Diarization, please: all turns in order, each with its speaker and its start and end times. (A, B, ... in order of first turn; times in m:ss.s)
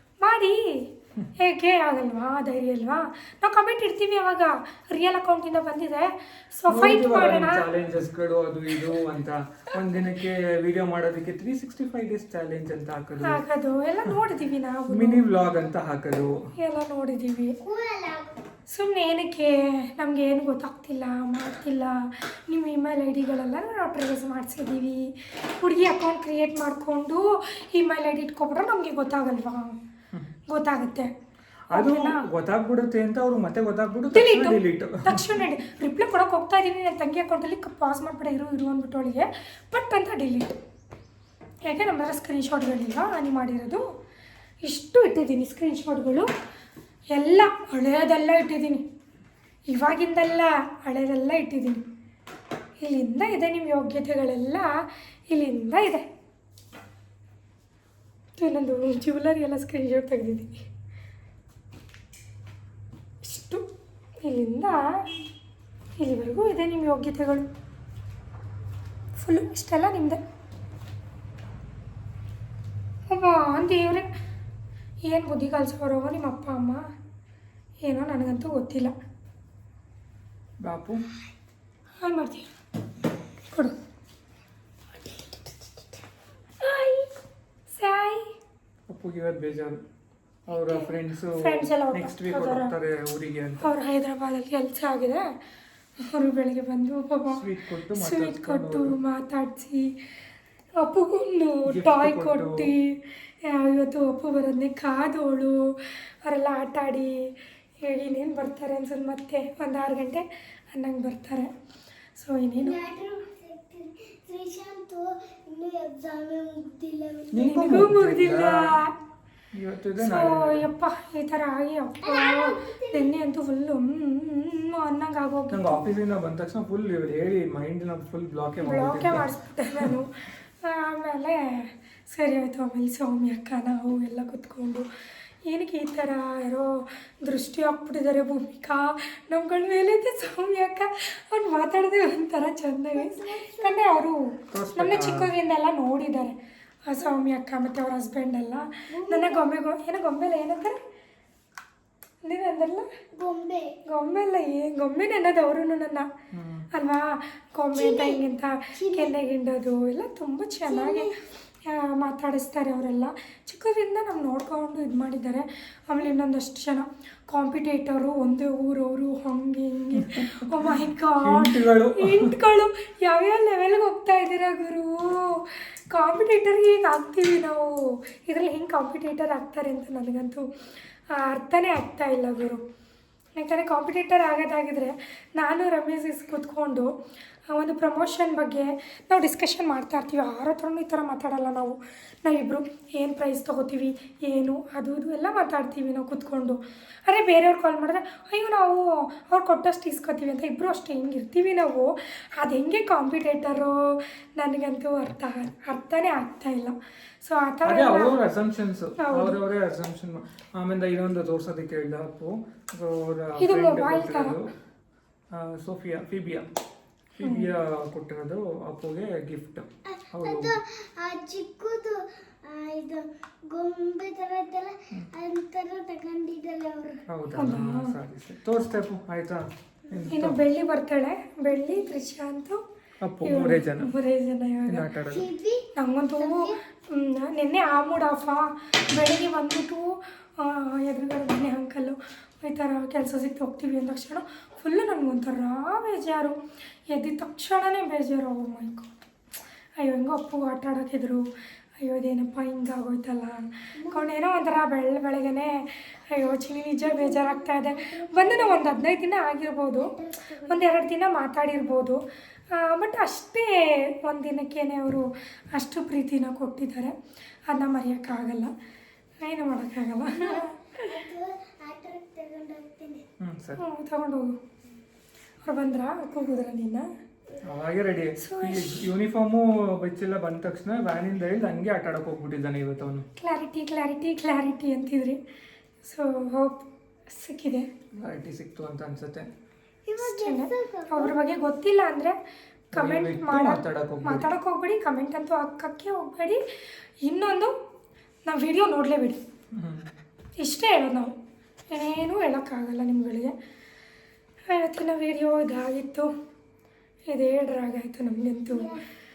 0:00.2-0:07.6 A
0:06.7-0:13.4 B
0:13.2-0:15.2 A
0:14.9-0:16.4 B
0:16.6-0:17.6 A
0:17.6-0:18.4 C
0:18.7-0:29.8 A
0:30.5-0:31.1 A
0:31.7-0:35.5 B
0:31.7-0:32.2 A
0:34.1-0:40.6 A
0:41.6-0:43.8 A
0:44.6-0:46.3 A
0:47.1-0:48.8 A
0:49.7-0:51.8 A
0:52.8-0:56.1 A
0:58.4-1:00.6 A
1:03.2-1:03.6 A
1:04.2-1:05.1 A
1:06.0-1:07.5 A
1:09.2-1:10.2 A
1:13.1-1:14.1 A
1:15.1-1:16.8 A
1:17.8-1:18.9 A
1:20.6-1:21.0 B
1:22.0-1:22.5 A
1:26.6-1:27.2 A
1:27.7-1:28.3 A
1:28.9-1:29.8 B
1:30.5-1:33.7 B
1:30.7-1:32.7 A
1:33.6-1:35.4 A
1:36.0-1:37.4 A
1:37.3-1:39.0 B
1:37.9-1:39.9 A
1:40.8-1:47.3 A
1:41.7-1:42.7 B
1:47.8-1:51.5 A
1:52.2-1:52.8 A
1:52.6-1:57.5 C
1:57.3-1:58.8 B
1:57.4-1:58.9 A
1:59.5-2:00.6 B
2:00.0-2:05.8 A
2:02.0-2:03.1 C
2:05.5-2:10.0 B
2:08.6-2:14.9 A
2:15.5-2:26.4 A
2:22.9-2:24.0 C
2:24.5-2:25.3 B
2:26.9-2:30.8 A
2:28.9-2:29.5 C
2:32.2-2:32.9 A
2:33.2-2:33.8 C
2:33.9-2:36.1 A
2:36.3-2:36.7 B
2:36.7-2:41.1 A
2:37.8-2:38.2 C
2:38.8-2:39.1 C
2:40.6-2:41.1 C
2:41.6-3:00.5 A
2:50.0-2:52.4 B
3:01.1-3:02.6 A
3:03.4-3:06.9 A
3:07.5-3:28.2 A
3:27.6-3:34.5 B
3:29.0-3:29.4 A
3:33.4-3:34.4 A
3:35.3-3:36.6 B
3:37.2-3:40.6 B
3:37.2-3:37.5 A
3:39.9-3:47.0 C
3:47.1-3:50.4 B
3:47.4-3:47.9 A
3:50.1-3:52.6 A
3:53.0-3:53.9 B
3:53.2-3:54.9 A
3:54.7-3:55.3 B
3:55.1-3:55.7 C
3:55.7-4:06.4 A
3:56.2-3:56.6 C
4:06.9-4:08.9 A
4:09.8-4:11.3 A
4:11.8-4:19.9 A
4:13.8-4:14.1 C
4:16.8-4:19.0 C
4:19.8-4:20.7 C
4:20.5-4:22.0 A
4:22.5-4:27.0 A
4:27.5-4:28.5 A
4:29.2-4:31.0 A
4:30.2-4:33.0 C
4:33.2-4:33.6 B
4:33.6-4:34.4 A
4:35.4-4:36.9 A
4:37.4-4:43.1 B
4:38.2-4:38.8 A
4:43.2-4:45.2 A
4:45.8-4:47.7 A
4:48.0-4:49.3 B
4:49.9-4:51.4 C
4:50.0-4:52.2 A
4:52.7-4:54.3 B
4:52.7-4:56.4 A
4:57.0-4:57.5 A
4:58.3-4:59.2 A
4:59.5-4:59.8 B
5:00.4-5:01.1 A
5:01.7-5:03.3 A
5:04.5-5:06.1 A
5:07.1-5:08.7 A
5:08.4-5:08.8 C